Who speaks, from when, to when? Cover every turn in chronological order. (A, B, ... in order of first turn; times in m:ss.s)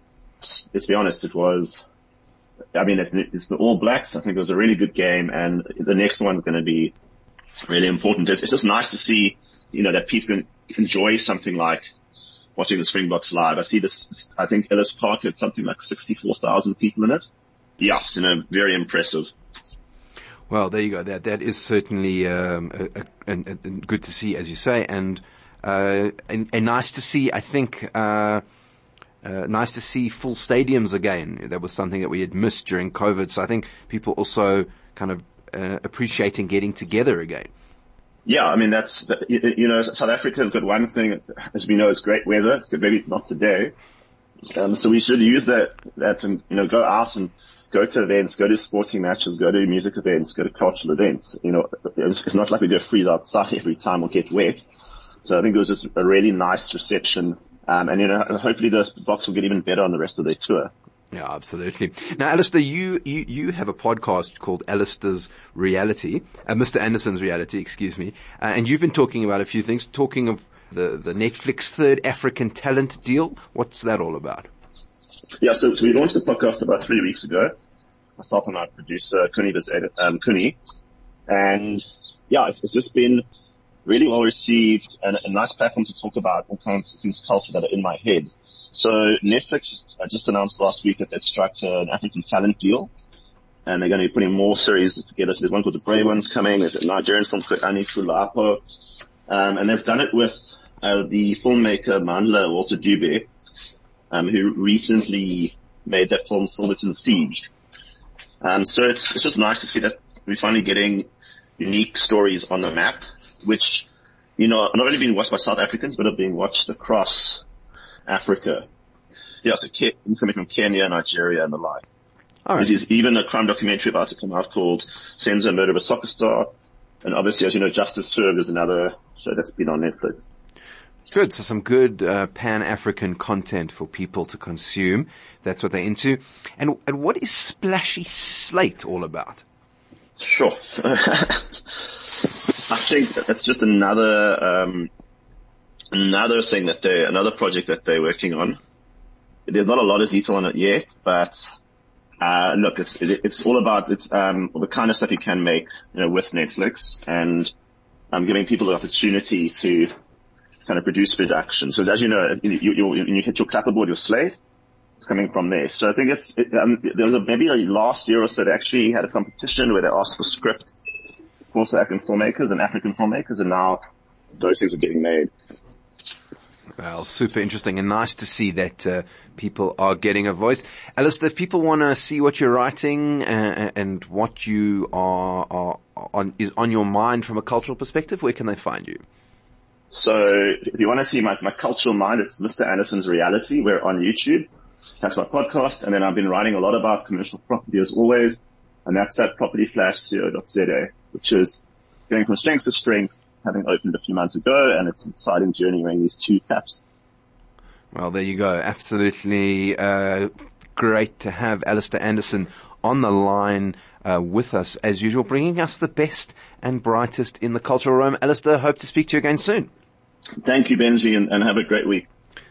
0:00.4-0:01.8 A
0:02.8-0:06.9 A
0:07.7-0:11.8 A
0:12.6-0:17.2 A
0:17.8-0:19.3 A
0:20.5-0:28.4 B
0:29.2-0:37.5 B
0:38.3-0:43.7 A
0:44.5-0:54.6 A
0:55.2-1:00.7 A
1:01.1-1:14.5 B
1:15.4-1:17.5 A
1:18.2-1:20.6 A
1:21.3-1:23.2 A
1:23.9-1:32.9 A
1:33.7-1:38.6 A
1:39.3-1:43.3 A
1:44.1-1:47.5 A
1:48.4-1:57.4 A
1:58.1-1:58.7 A
1:59.4-2:01.8 A
2:02.5-2:02.7 B
2:02.6-2:06.5 A
2:07.0-2:10.3 A
2:11.1-2:19.4 B
2:20.2-2:24.9 A
2:25.9-2:28.6 A
2:29.5-2:31.4 A
2:32.2-2:37.5 A
2:38.1-2:39.9 A
2:40.7-2:44.4 A
2:45.0-2:50.9 A
2:51.5-2:53.8 A
2:54.4-2:55.3 A
2:56.8-3:09.0 B
3:09.9-3:14.5 A
3:15.0-3:26.8 A
3:27.9-3:39.7 B
3:40.4-3:42.1 A